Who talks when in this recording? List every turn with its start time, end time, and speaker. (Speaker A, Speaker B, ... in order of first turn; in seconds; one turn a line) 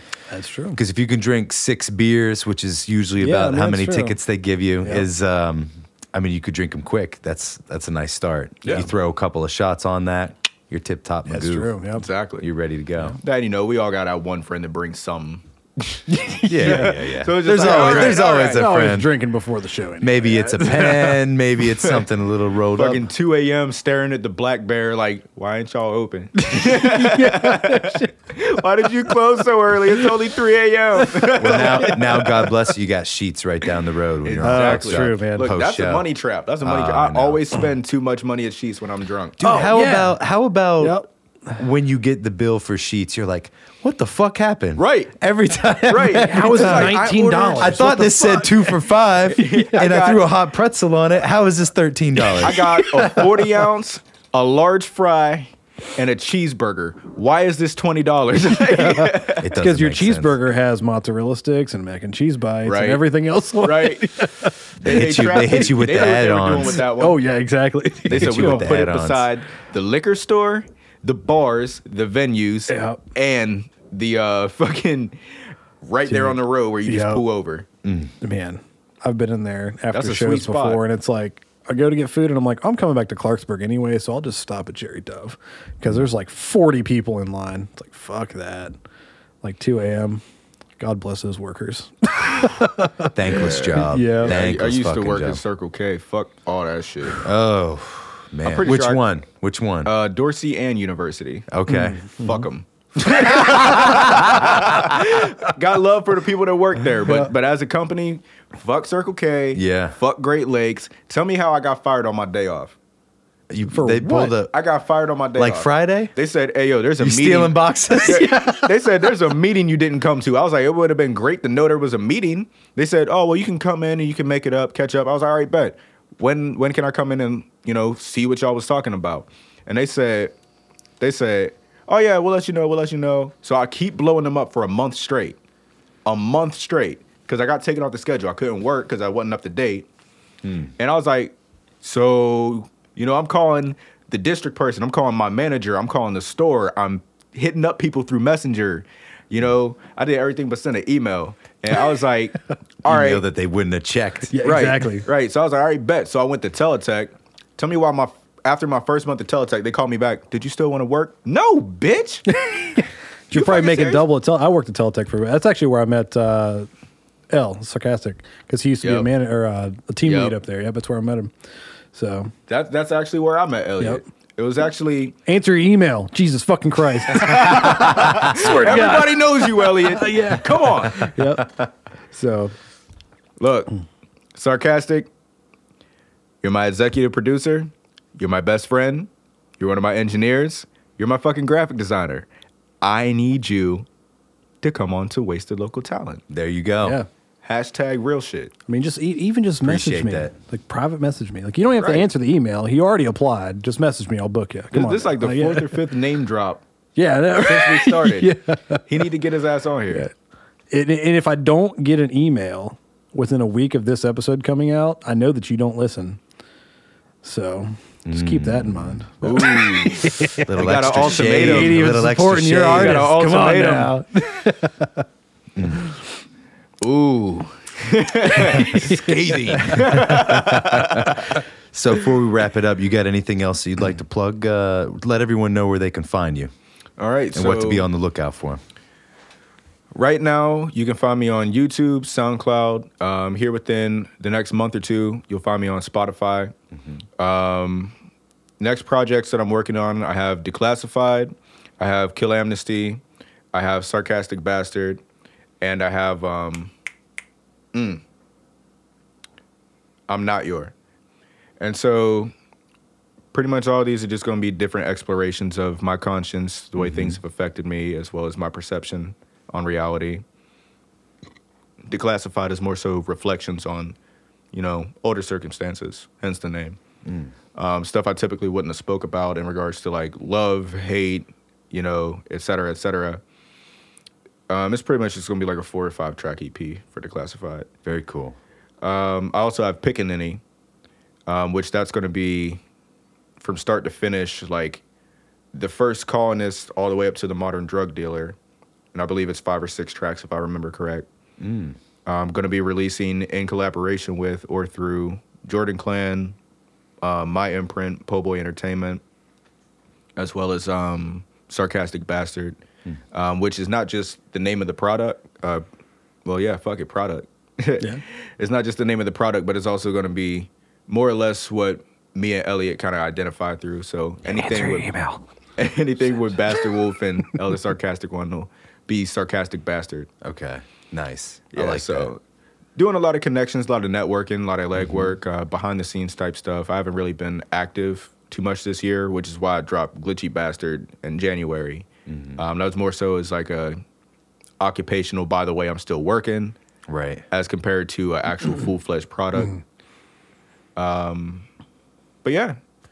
Speaker A: 0.3-0.8
Speaker B: 0.8-11.7
Speaker A: 3.2-4.2
Speaker C: 8.6-8.9
Speaker A: 11.2-12.1
Speaker C: 12.0-12.5
Speaker B: 12.4-13.2
Speaker C: 13.2-18.6
Speaker B: 16.4-19.1
Speaker A: 16.6-17.0
Speaker A: 17.5-21.1
Speaker B: 20.0-23.0
Speaker C: 22.8-32.3
Speaker A: 26.4-28.1
Speaker A: 28.9-29.1
Speaker A: 31.1-31.9
Speaker B: 31.3-36.1
Speaker C: 34.2-39.5
Speaker A: 34.4-35.6
Speaker B: 36.6-37.4
Speaker B: 39.4-53.3
Speaker A: 39.4-40.2
Speaker A: 40.8-41.1
Speaker C: 44.8-45.1
Speaker C: 45.9-50.3
Speaker A: 46.1-48.4
Speaker C: 52.3-59.5
Speaker A: 52.6-53.1
Speaker A: 58.7-65.6
Speaker B: 59.4-60.4
Speaker C: 62.6-63.0
Speaker C: 63.5-64.3
Speaker B: 64.8-66.8
Speaker C: 64.8-67.2
Speaker A: 66.8-68.7
Speaker B: 68.1-69.3
Speaker C: 68.1-75.2
Speaker A: 72.7-73.0
Speaker C: 75.8-77.7
Speaker A: 76.0-77.2
Speaker B: 77.8-78.1
Speaker A: 78.2-88.7
Speaker C: 79.9-80.8
Speaker A: 89.4-90.2
Speaker A: 90.8-94.4
Speaker B: 93.0-95.4
Speaker C: 93.3-97.2
Speaker B: 97.2-99.9
Speaker C: 98.4-99.0
Speaker C: 99.8-101.5
Speaker B: 101.5-102.0
Speaker A: 101.7-102.4
Speaker C: 102.2-112.8
Speaker A: 103.1-105.0
Speaker B: 103.6-104.8
Speaker B: 109.5-110.0
Speaker B: 113.5-114.5
Speaker A: 113.7-114.3
Speaker C: 114.5-130.3
Speaker B: 115.3-116.1
Speaker B: 117.0-118.7
Speaker C: 131.0-135.4
Speaker C: 136.1-139.9
Speaker B: 140.4-140.7
Speaker C: 140.8-153.2
Speaker B: 152.8-154.4
Speaker A: 154.3-155.1
Speaker C: 154.4-162.3
Speaker A: 162.3-166.7
Speaker C: 163.3-164.1
Speaker A: 167.3-171.3
Speaker C: 168.8-169.1
Speaker C: 170.0-170.4
Speaker A: 171.9-172.3
Speaker C: 172.5-175.1
Speaker A: 175.2-182.5
Speaker C: 177.1-181.2
Speaker C: 183.4-183.7
Speaker C: 184.3-185.1
Speaker C: 186.4-189.1
Speaker C: 189.6-192.3
Speaker C: 192.8-193.8
Speaker C: 194.6-196.2
Speaker B: 196.3-197.0
Speaker C: 197.4-198.5
Speaker A: 198.7-205.8
Speaker B: 199.6-200.3
Speaker C: 201.8-202.1
Speaker C: 204.7-206.6
Speaker A: 206.9-209.1
Speaker C: 207.3-208.3
Speaker C: 208.9-210.1
Speaker A: 210.7-216.2
Speaker A: 217.2-220.5
Speaker B: 218.0-219.0
Speaker C: 219.2-222.0
Speaker B: 220.4-223.1
Speaker A: 221.1-225.0
Speaker C: 222.6-224.0
Speaker B: 225.6-225.9
Speaker C: 226.8-231.4
Speaker A: 228.5-229.1
Speaker B: 228.6-236.5
Speaker C: 237.0-237.9
Speaker B: 237.3-238.6
Speaker C: 239.9-246.5
Speaker B: 246.8-247.0
Speaker C: 247.2-247.9
Speaker C: 248.6-253.0
Speaker C: 253.5-255.0
Speaker C: 255.6-256.7
Speaker C: 257.7-258.0
Speaker C: 260.1-260.7
Speaker C: 261.6-262.3
Speaker C: 263.3-270.2
Speaker B: 266.8-267.2
Speaker C: 271.9-273.9
Speaker C: 274.5-276.8
Speaker B: 277.0-277.3
Speaker C: 277.5-283.2
Speaker C: 284.5-287.7
Speaker B: 287.9-288.4
Speaker C: 288.8-290.4
Speaker C: 291.3-292.6
Speaker C: 293.4-294.8
Speaker C: 295.5-298.4
Speaker C: 298.9-301.1
Speaker B: 301.4-301.8
Speaker C: 302.1-306.3
Speaker C: 307.0-309.0
Speaker C: 310.2-312.6
Speaker C: 313.1-315.6
Speaker C: 316.2-324.9
Speaker A: 324.3-325.2
Speaker C: 325.6-330.1
Speaker B: 330.2-332.1
Speaker C: 331.5-332.2
Speaker C: 332.8-343.8
Speaker B: 334.8-335.1
Speaker B: 342.1-342.4
Speaker C: 344.6-346.6
Speaker B: 346.9-347.2
Speaker C: 347.3-349.6
Speaker C: 350.8-351.4
Speaker C: 352.2-352.6